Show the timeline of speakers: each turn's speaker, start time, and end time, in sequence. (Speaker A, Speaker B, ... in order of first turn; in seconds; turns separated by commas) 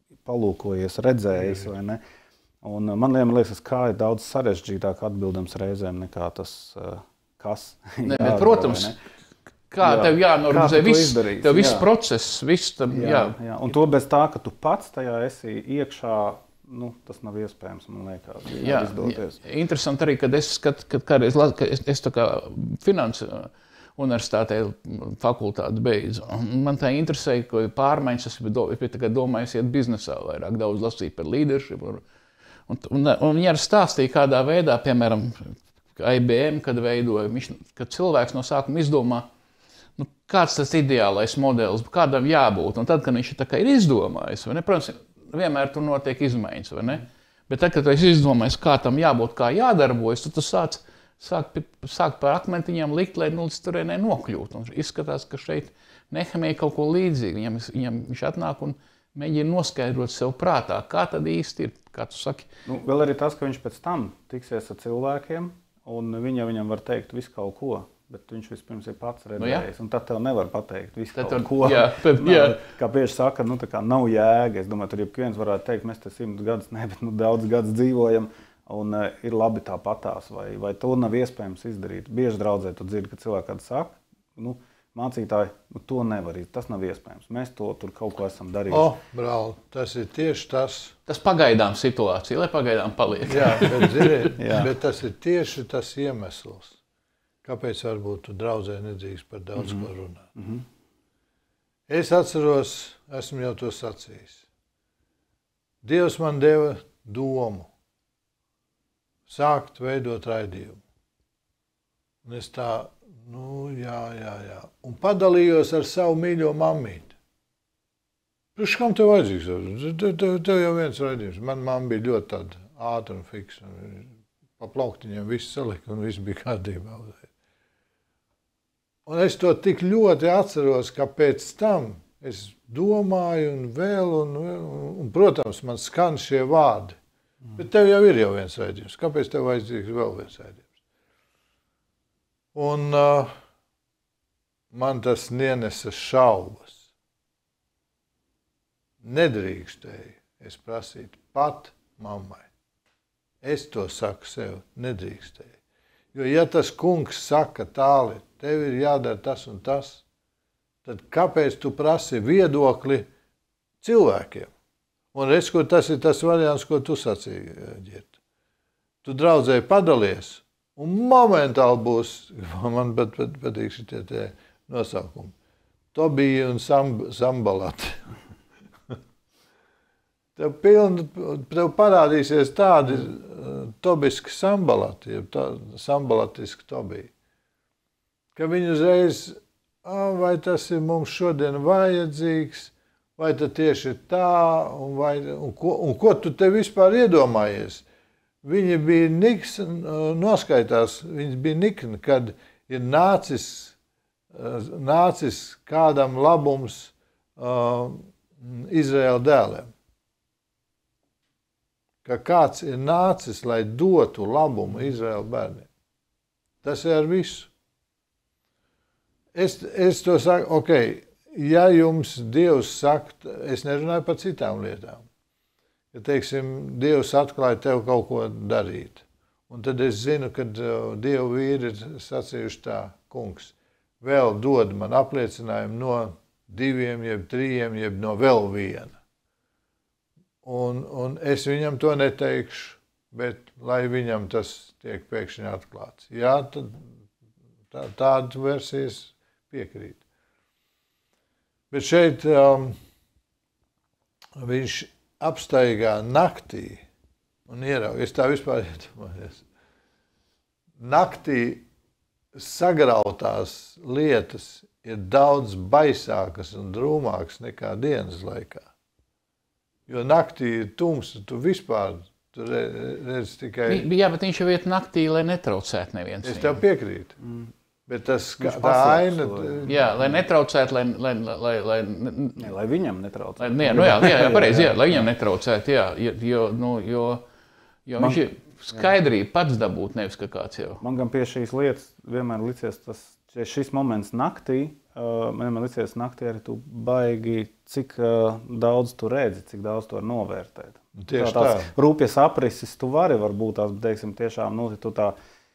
Speaker A: 0.2-2.0, Speaker A: 2.6-9.0, Speaker B: 8.1-8.9, Speaker B: 9.7-13.4, Speaker A: 9.8-11.9, Speaker A: 12.9-19.4, Speaker B: 18.6-32.0, Speaker B: 32.7-39.3, Speaker B: 40.0-62.5, Speaker A: 62.7-88.9, Speaker B: 69.4-69.7, Speaker B: 71.2-72.6, Speaker C: 88.7-91.0, Speaker B: 91.1-94.2, Speaker C: 93.3-96.8, Speaker A: 94.4-94.7, Speaker C: 97.4-100.3, Speaker A: 99.6-100.7, Speaker C: 101.9-104.5, Speaker C: 105.8-107.7, Speaker C: 109.3-110.8, Speaker C: 112.2-117.2, Speaker C: 118.6-127.3, Speaker C: 129.1-137.0, Speaker C: 137.6-140.7, Speaker C: 142.5-143.3, Speaker C: 144.7-146.8, Speaker C: 149.0-152.5, Speaker C: 153.4-155.6, Speaker C: 156.1-160.0, Speaker C: 160.8-163.1, Speaker C: 163.8-164.5, Speaker C: 165.1-168.1, Speaker C: 169.0-175.3, Speaker C: 175.9-178.1, Speaker C: 180.4-187.1, Speaker C: 188.4-197.8, Speaker C: 198.4-203.8, Speaker C: 204.3-209.7, Speaker C: 212.1-215.7, Speaker C: 216.6-217.5, Speaker C: 219.3-225.1, Speaker C: 225.9-239.0, Speaker C: 240.4-246.9, Speaker C: 247.7-250.0, Speaker C: 251.7-252.8, Speaker C: 254.4-256.9, Speaker C: 257.5-259.4, Speaker C: 260.8-261.6, Speaker C: 262.4-268.7, Speaker C: 269.9-273.9, Speaker B: 273.7-276.6, Speaker C: 276.2-277.2, Speaker A: 277.2-277.5, Speaker C: 277.9-279.8, Speaker A: 278.4-280.2, Speaker B: 279.7-282.5, Speaker A: 282.4-285.1, Speaker B: 283.4-287.2, Speaker B: 287.9-290.8, Speaker A: 290.8-305.1, Speaker C: 301.0-301.7